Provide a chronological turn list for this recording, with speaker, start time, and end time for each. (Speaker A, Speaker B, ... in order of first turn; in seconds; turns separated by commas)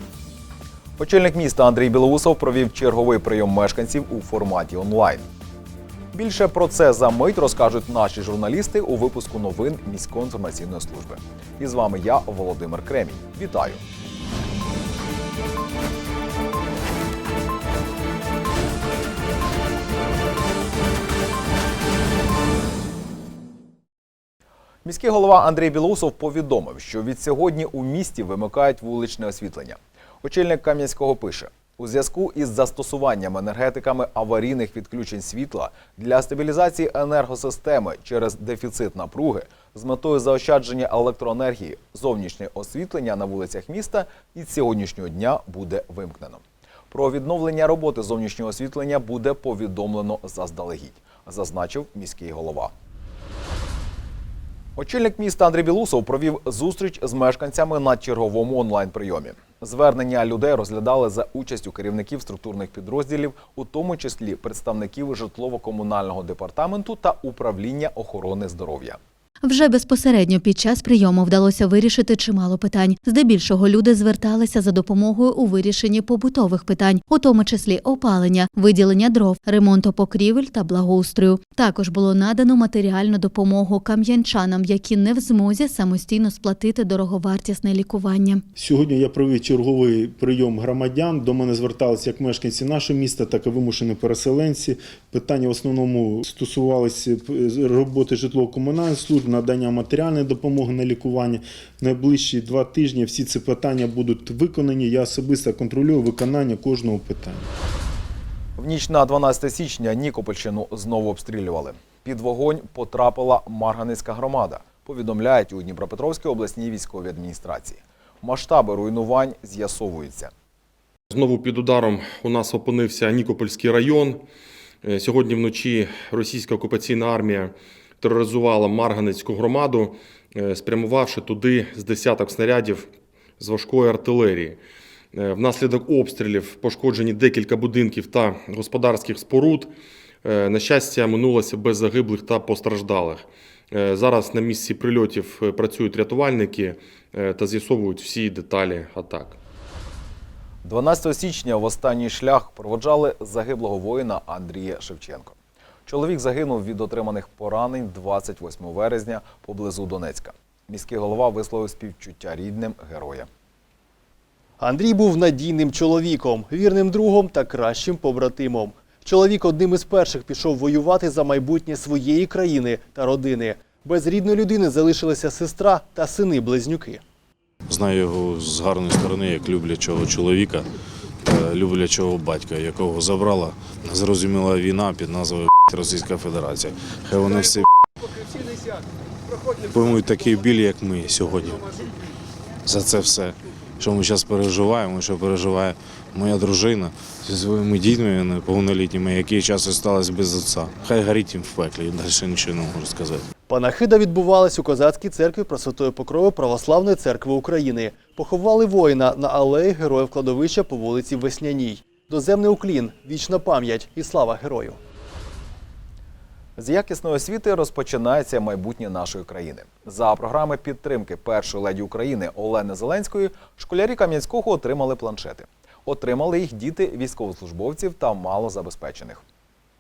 Speaker A: 1.0-5.2, Speaker A: 6.1-13.8, Speaker A: 24.9-52.7, Speaker A: 54.8-69.0, Speaker B: 69.4-88.4, Speaker C: 88.6-107.5, Speaker A: 108.6-120.3, Speaker D: 121.1-124.2, Speaker D: 124.8-134.6, Speaker D: 135.1-139.7, Speaker D: 140.2-149.4, Speaker A: 150.7-155.4, Speaker A: 155.9-163.3, Speaker E: 164.6-177.0, Speaker F: 177.7-180.7, Speaker F: 181.2-187.7, Speaker F: 189.6-191.7, Speaker F: 192.7-203.2, Speaker E: 203.5-214.8, Speaker A: 216.6-229.2